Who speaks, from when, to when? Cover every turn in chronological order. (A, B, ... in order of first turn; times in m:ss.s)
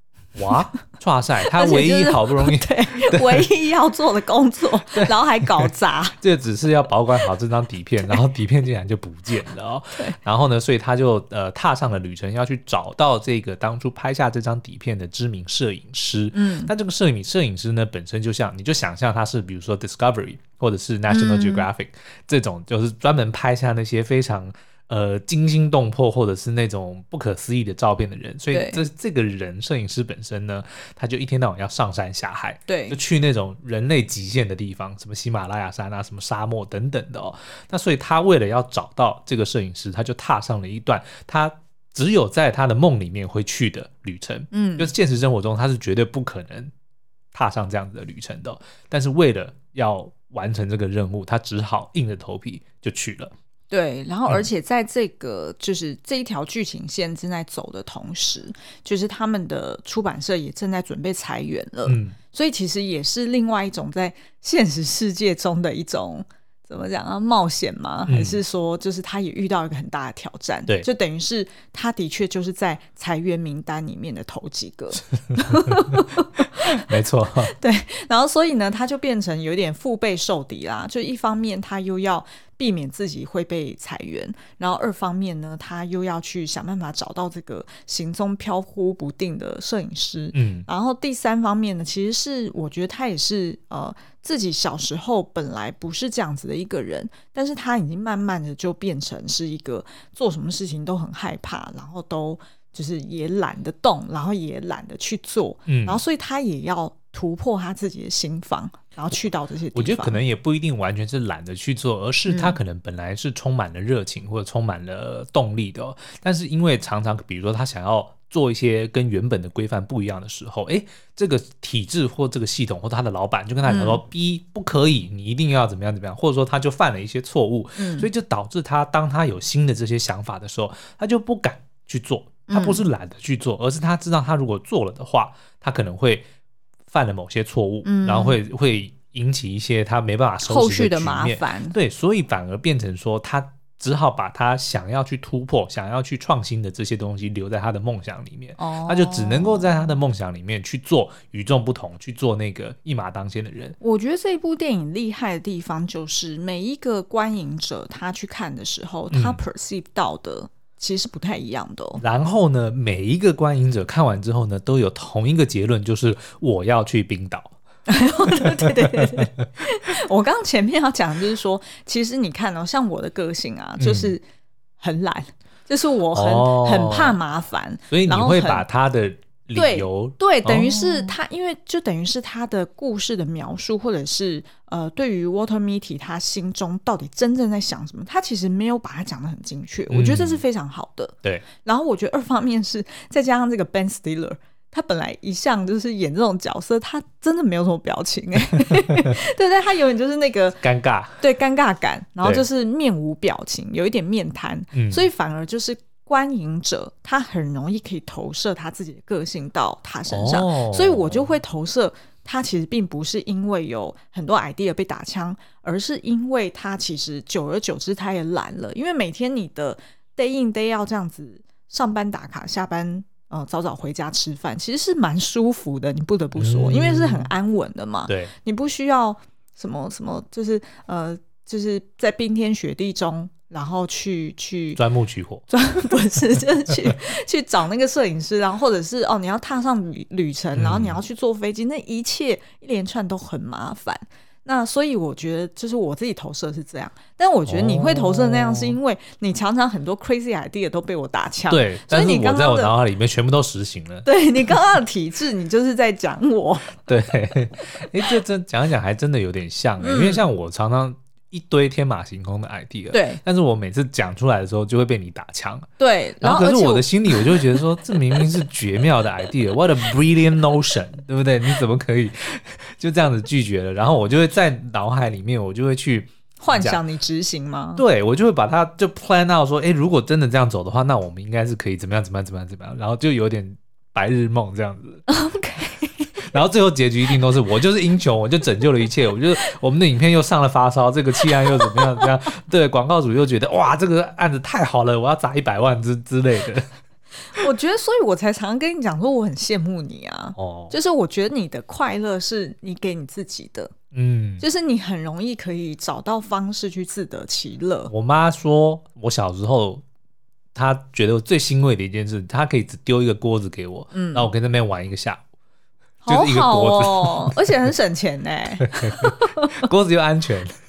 0:00.4-0:03.5 A
0:01.4-0:06.2 B
0:05.0-0:46.7 A
0:16.3-0:16.7 B
0:21.1-0:21.7 B
0:28.5-0:28.8 B
0:32.7-0:33.0 B
0:44.5-0:44.9 B
0:47.3-0:53.3 A
0:53.7-1:16.9 B
1:01.9-1:02.2 A
1:08.1-1:08.4 A
1:15.3-1:17.5 A
1:17.4-1:50.2 B
1:30.3-1:30.7 A
1:45.7-1:46.0 A
1:49.7-2:16.3 A
1:52.3-1:52.6 B
2:03.7-2:04.0 B
2:07.8-2:08.1 B
2:12.5-2:12.8 B
2:16.9-2:33.8 A
2:17.8-2:18.4 B
2:20.4-2:21.8 B
2:28.6-2:29.7 B
2:33.8-2:42.0 B
2:39.1-2:39.4 A
2:42.0-2:47.6 A
2:47.9-2:54.2 B
2:48.3-2:48.8 A
2:53.8-2:54.2 A
2:54.8-2:58.6 B
2:56.1-2:57.2 A
2:57.9-3:01.1 A
2:59.6-3:20.6 B
3:09.9-3:10.4 A
3:18.7-3:19.1 A
3:20.6-3:21.2 A
3:21.2-3:54.8 B
3:24.7-3:25.1 A
3:30.1-3:31.3 A
3:46.4-3:47.3 A
3:48.1-3:48.3 A
3:54.8-3:55.4 A
3:55.5-4:12.7 B
4:00.6-4:01.0 A
4:07.5-4:08.8 A
4:11.5-4:14.1 A
4:14.0-4:16.9 B
4:16.9-4:25.7 A
4:19.8-4:20.2 B
4:22.9-4:23.2 B
4:25.8-4:28.2 B
4:26.2-4:36.8 A
4:36.4-4:37.8 B
4:37.8-4:45.0 A
4:45.1-4:46.2 B
4:46.2-4:56.7 A
4:51.2-4:52.0 B
4:57.3-5:03.7 B
5:00.4-5:00.7 A
5:03.9-5:04.4 A
5:04.4-5:07.9 B
5:07.9-5:09.8 A
5:10.5-5:15.2 A
5:13.9-5:14.3 B
5:16.0-5:19.7 B
5:16.1-5:17.5 A
5:18.6-5:20.6 A